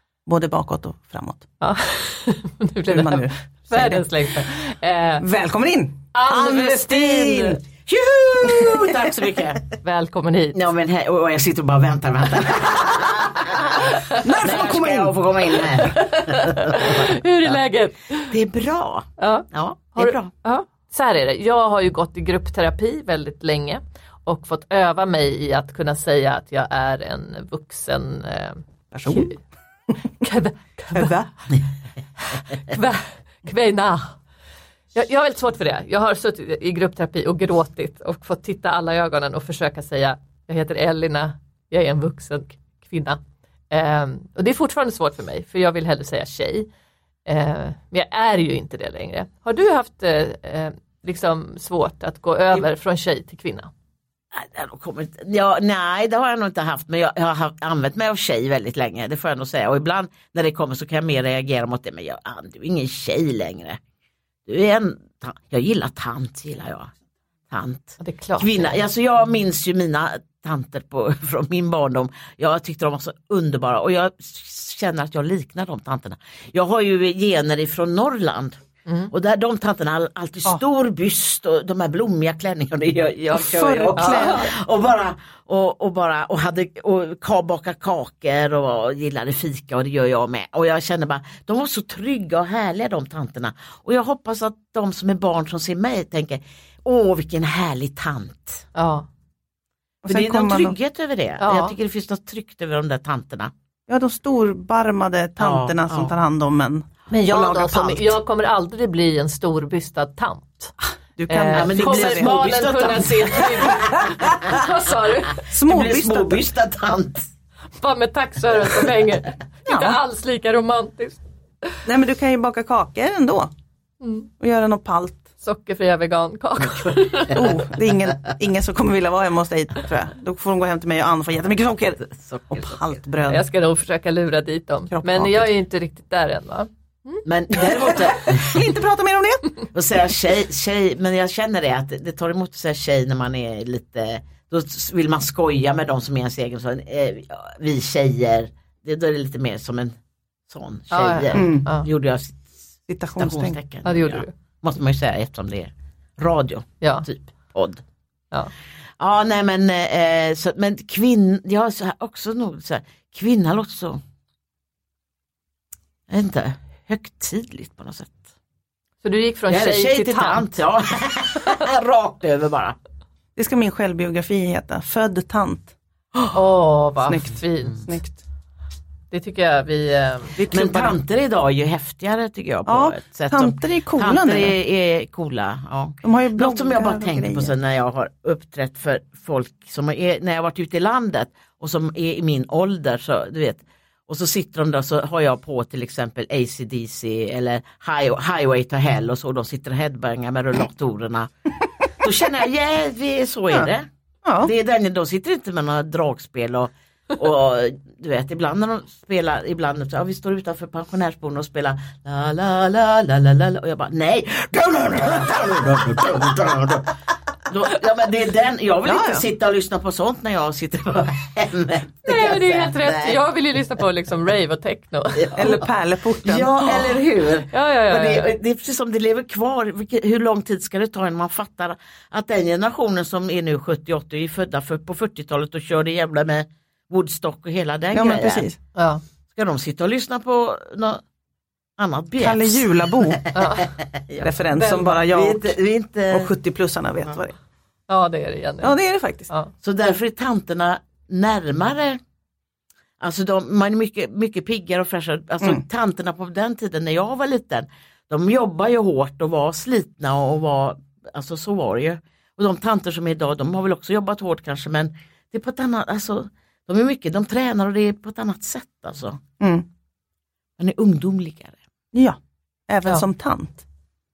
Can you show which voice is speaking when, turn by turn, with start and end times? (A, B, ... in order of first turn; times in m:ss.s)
0:00.2-0:01.4 A
0:01.6-0:05.2 B
0:02.9-0:04.0 A
0:05.2-0:07.6 A
0:06.1-0:07.6 B
0:07.9-0:09.7 C
0:08.5-0:08.8 A
0:09.8-0:10.6 B
0:10.5-0:17.6 C
0:13.9-0:14.4 B
0:14.1-0:15.2 A
0:15.8-0:18.3 B
0:18.3-0:20.3 C
0:19.2-0:29.4 B
0:28.9-0:29.3 A
0:30.2-0:31.2 B
0:30.9-0:31.3 A
0:32.3-0:34.2 B
0:34.9-0:43.2 B
0:43.7-0:46.7 B
0:47.2-0:53.7 B
0:54.3-1:03.8 C
1:04.4-1:06.9 C
1:07.5-1:18.6 C
1:08.0-1:08.8 B
1:19.1-1:38.6 C
1:23.3-1:24.5 A
1:24.0-1:24.4 B
1:38.8-1:39.1 B
1:40.0-1:40.8 A
1:40.1-1:43.5 C
1:41.4-1:41.8 B
1:43.9-1:48.2 A
1:45.4-1:46.1 C
1:47.1-1:50.7 B
1:51.2-1:52.4 A
1:51.3-1:55.4 B
1:51.5-1:54.6 C
1:55.5-1:56.4 A
1:55.5-1:57.3 C
1:57.8-2:01.8 B
1:59.7-2:00.0 A
2:01.8-2:03.5 A
2:04.0-2:04.3 B
2:04.4-2:05.2 A
2:05.4-2:07.6 B
2:07.3-2:13.4 A
2:12.0-2:12.8 C
2:13.2-2:17.2 B
2:14.9-2:15.5 A
2:17.2-2:18.7 C
2:17.9-2:19.6 A
2:19.7-2:29.9 C
2:30.5-2:32.6 C
2:30.9-2:31.9 B
2:31.3-2:31.7 A
2:32.9-2:33.6 A
2:33.2-2:37.8 C
2:33.8-2:34.3 B
2:36.8-2:37.1 B
2:39.0-2:44.0 C
2:46.1-2:48.2 C
2:49.0-2:50.5 B
2:49.5-2:52.8 C
2:53.4-2:55.7 A
2:56.3-2:57.9 B
2:57.0-2:58.2 A
2:59.1-3:00.4 B
3:00.4-3:01.0 A
3:00.5-3:21.3 C
3:02.6-3:04.6 A
3:06.0-3:07.5 A
3:21.9-3:23.9 C
3:24.2-3:24.5 A
3:24.4-3:43.2 C
3:38.8-3:39.2 A
3:42.0-3:45.6 B
3:45.1-3:45.6 C
3:45.4-3:47.0 A
3:46.2-3:58.5 C
3:47.5-3:48.3 B
3:57.9-3:58.6 A
3:58.8-3:59.0 B
3:59.3-4:01.0 C
4:01.8-4:06.3 C
4:02.2-4:03.2 A
4:03.3-4:03.7 B
4:04.2-4:05.5 A
4:04.6-4:04.9 B
4:06.1-4:07.4 A
4:07.9-4:08.8 B
4:08.6-4:09.3 A
4:09.6-4:12.0 C
4:13.0-4:29.2 C
4:29.4-4:29.6 A
4:30.6-4:31.6 C
4:31.9-4:33.6 A